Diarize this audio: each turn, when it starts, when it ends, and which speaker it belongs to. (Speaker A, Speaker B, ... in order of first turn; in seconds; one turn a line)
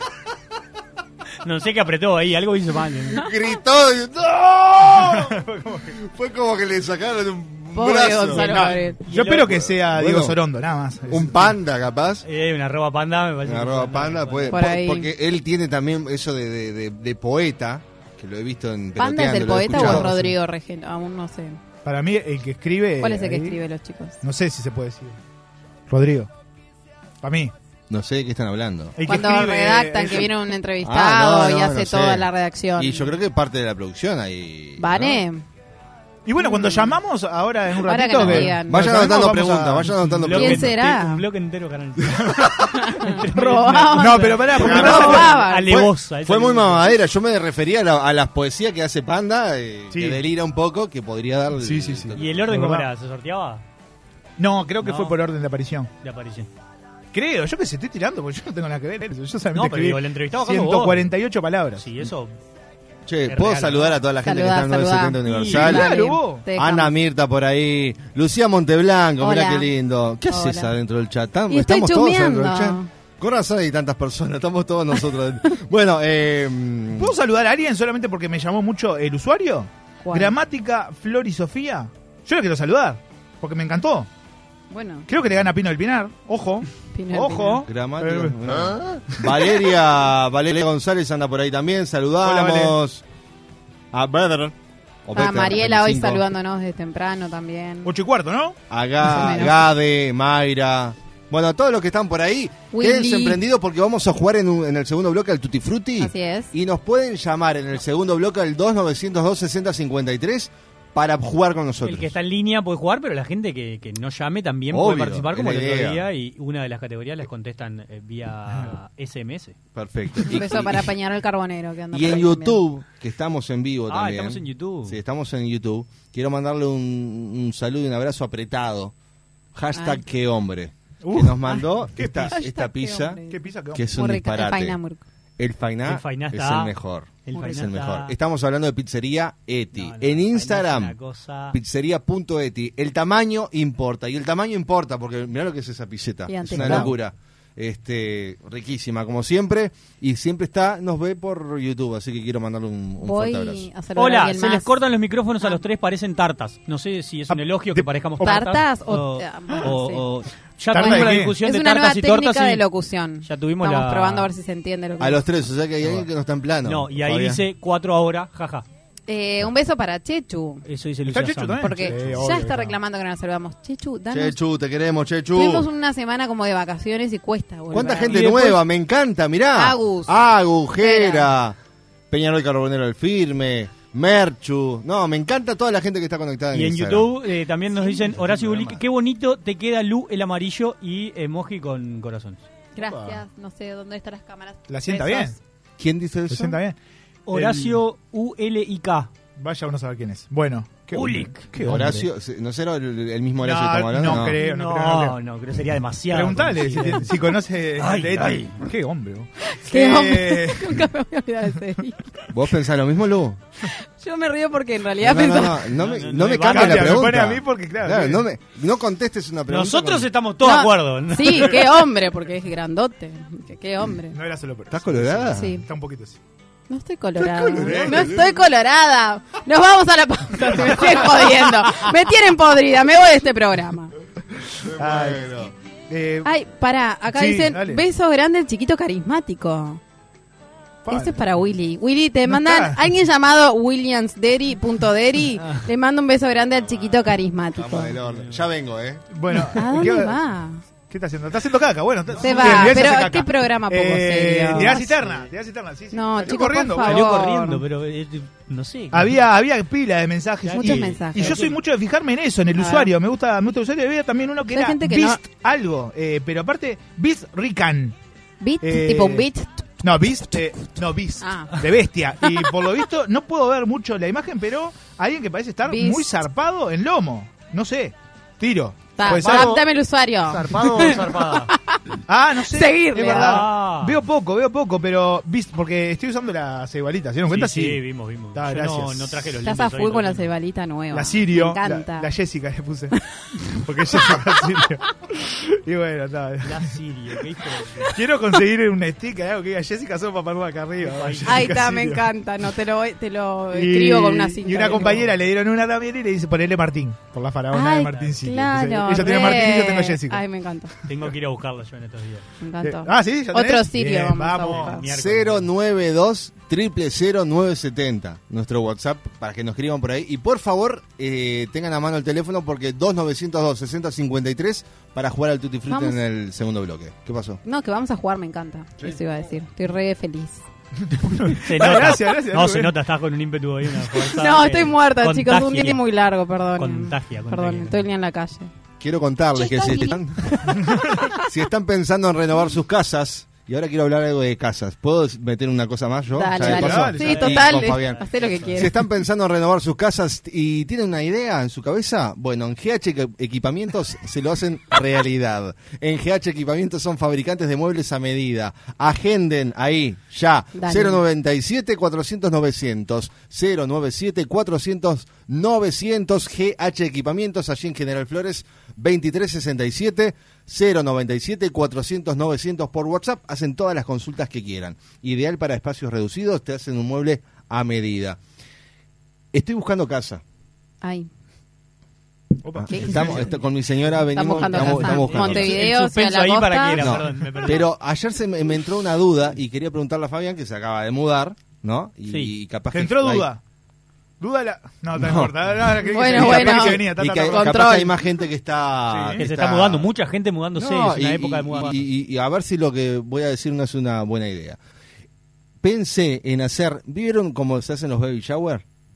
Speaker A: 1.4-3.2
Speaker B: 3.1-5.3
Speaker C: 4.9-5.9
Speaker B: 6.0-8.7
Speaker D: 7.7-9.0
Speaker C: 8.3-11.5
Speaker A: 9.1-9.6
Speaker B: 9.4-10.4
Speaker B: 11.1-12.2
Speaker A: 12.2-14.6
Speaker B: 13.4-20.1
Speaker D: 14.5-15.1
Speaker D: 19.0-21.6
Speaker C: 19.7-20.3
Speaker C: 21.8-23.6
Speaker D: 23.0-24.2
Speaker C: 24.2-25.2
Speaker C: 25.9-26.3
Speaker C: 27.2-27.5
Speaker B: 27.9-28.9
Speaker C: 28.9-30.4
Speaker D: 29.1-33.1
Speaker B: 30.8-35.2
Speaker D: 34.8-35.4
Speaker C: 36.2-40.2
Speaker D: 36.4-36.9
Speaker D: 37.8-38.8
Speaker B: 38.2-40.7
Speaker A: 40.2-42.4
Speaker D: 40.3-41.2
Speaker C: 42.1-42.5
Speaker D: 42.7-45.7
Speaker A: 43.0-46.9
Speaker C: 43.4-45.3
Speaker B: 44.5-52.4
Speaker C: 49.9-50.2
Speaker C: 51.6-52.9
Speaker A: 52.2-53.6
Speaker C: 54.4-55.9
Speaker A: 54.8-55.2
Speaker A: 56.0-56.5
Speaker C: 57.1-61.9
Speaker A: 59.5-61.1
Speaker A: 61.8-62.4
Speaker B: 63.0-65.9
Speaker A: 63.3-64.0
Speaker D: 64.2-66.9
Speaker A: 65.2-65.7
Speaker C: 65.5-66.4
Speaker B: 66.5-77.1
Speaker D: 69.2-69.7
Speaker D: 70.3-70.7
Speaker D: 71.5-72.9
Speaker C: 77.0-84.1
Speaker D: 80.0-80.3
Speaker D: 84.7-85.1
Speaker C: 85.1-88.7
Speaker D: 86.9-87.6
Speaker B: 87.6-93.0
Speaker C: 92.2-92.8
Speaker B: 93.9-96.2
Speaker D: 95.1-97.9
Speaker C: 97.8-98.6
Speaker B: 98.7-112.1
Speaker D: 99.0-99.6
Speaker D: 102.7-103.4
Speaker D: 106.0-106.5
Speaker A: 111.8-119.5
Speaker B: 114.7-116.0
Speaker B: 119.7-120.9
Speaker D: 120.3-122.6
Speaker B: 121.9-128.9
Speaker A: 123.9-125.0
Speaker B: 129.5-133.2
Speaker D: 129.7-130.0
Speaker C: 131.0-132.4
Speaker D: 132.2-133.4
Speaker C: 133.3-133.9
Speaker B: 133.7-134.8
Speaker D: 133.9-135.0
Speaker B: 135.4-140.9
Speaker A: 135.8-138.1
Speaker A: 139.7-141.6
Speaker B: 141.5-153.7
Speaker D: 146.3-146.9
Speaker C: 146.6-146.9
Speaker D: 153.0-154.7
Speaker A: 153.9-162.6
Speaker C: 157.3-158.4
Speaker D: 158.2-160.0
Speaker C: 160.7-161.3
Speaker D: 160.7-165.2
Speaker A: 163.2-164.3
Speaker B: 165.0-167.4
Speaker A: 166.6-168.7
Speaker D: 169.1-170.6
Speaker A: 170.6-172.1
Speaker C: 171.1-172.8
Speaker D: 171.6-174.4
Speaker B: 174.1-175.7
Speaker D: 175.3-178.5
Speaker B: 177.7-181.6
Speaker A: 178.1-178.6
Speaker D: 179.5-180.2
Speaker D: 180.8-181.3
Speaker B: 182.1-187.1
Speaker A: 186.5-192.4
Speaker B: 188.1-188.8
Speaker D: 192.7-195.4
Speaker C: 192.8-193.2
Speaker C: 194.7-195.3
Speaker B: 195.8-196.6
Speaker C: 196.3-196.8
Speaker A: 197.3-199.1
Speaker C: 197.3-197.8
Speaker C: 199.4-202.1
Speaker A: 200.9-201.8
Speaker B: 201.6-204.4
Speaker C: 203.4-205.2
Speaker A: 204.4-207.2
Speaker C: 206.1-210.8
Speaker A: 207.8-208.6
Speaker D: 209.6-212.2
Speaker B: 212.3-213.4
Speaker D: 214.0-215.7
Speaker B: 215.0-220.1
Speaker A: 215.8-217.1
Speaker C: 216.5-218.2
Speaker A: 219.5-221.7
Speaker D: 220.4-224.2
Speaker C: 224.1-226.2
Speaker B: 224.7-225.5
Speaker D: 225.3-225.6
Speaker D: 226.7-233.9
Speaker B: 227.3-228.3
Speaker C: 227.6-228.1
Speaker C: 230.6-231.3
Speaker B: 234.7-235.5
Speaker C: 234.8-235.4
Speaker C: 235.9-236.3
Speaker D: 236.2-239.8
Speaker C: 237.1-237.8
Speaker C: 240.8-241.2
Speaker D: 240.9-247.9
Speaker C: 242.3-242.8
Speaker B: 247.5-249.0
Speaker A: 248.0-248.5
Speaker C: 249.1-250.2
Speaker D: 249.5-250.6
Speaker C: 250.9-257.1
Speaker D: 252.2-255.1
Speaker D: 255.9-257.6
Speaker A: 256.8-259.2
Speaker C: 258.9-267.9
Speaker A: 260.4-261.6
Speaker D: 260.5-261.4
Speaker D: 262.6-262.9
Speaker D: 264.5-265.2
Speaker D: 268.4-269.7
Speaker C: 268.6-269.3
Speaker C: 269.8-279.6
Speaker D: 271.2-271.6
Speaker D: 275.7-276.1
Speaker D: 278.9-281.8
Speaker A: 279.1-279.6
Speaker A: 280.3-281.5
Speaker C: 282.1-287.8
Speaker D: 282.5-283.4
Speaker A: 283.0-284.0
Speaker A: 287.3-290.3
Speaker C: 288.3-289.2
Speaker D: 289.4-292.1
Speaker C: 290.9-292.9
Speaker C: 293.6-296.7
Speaker A: 296.4-297.9
Speaker C: 297.9-302.0
Speaker A: 300.8-301.5
Speaker D: 301.2-305.1
Speaker C: 303.5-310.2
Speaker D: 307.5-310.7
Speaker A: 310.9-312.2
Speaker D: 312.4-314.8
Speaker C: 312.6-314.8
Speaker A: 314.4-315.5
Speaker B: 314.9-327.4
Speaker D: 325.7-326.0
Speaker D: 327.4-330.4
Speaker C: 330.8-332.7
Speaker A: 331.4-335.8
Speaker D: 334.0-338.5
Speaker A: 336.6-337.8
Speaker B: 338.8-340.5
Speaker D: 339.3-339.9
Speaker C: 340.5-340.8
Speaker B: 341.2-378.2
Speaker D: 346.1-348.8
Speaker C: 346.4-347.3
Speaker A: 347.0-348.5
Speaker D: 360.5-361.0
Speaker B: 379.3-380.2
Speaker D: 380.8-381.1
Speaker C: 382.4-383.3
Speaker B: 382.5-385.6
Speaker D: 382.7-383.3
Speaker D: 384.1-386.9
Speaker A: 384.6-387.7
Speaker B: 386.8-393.3
Speaker A: 392.1-392.3
Speaker C: 392.7-393.4
Speaker C: 394.2-397.7
Speaker B: 394.9-395.4
Speaker D: 395.9-397.9
Speaker B: 396.0-399.9
Speaker C: 398.9-399.2
Speaker A: 399.2-401.9
Speaker B: 400.6-404.6
Speaker B: 405.6-408.6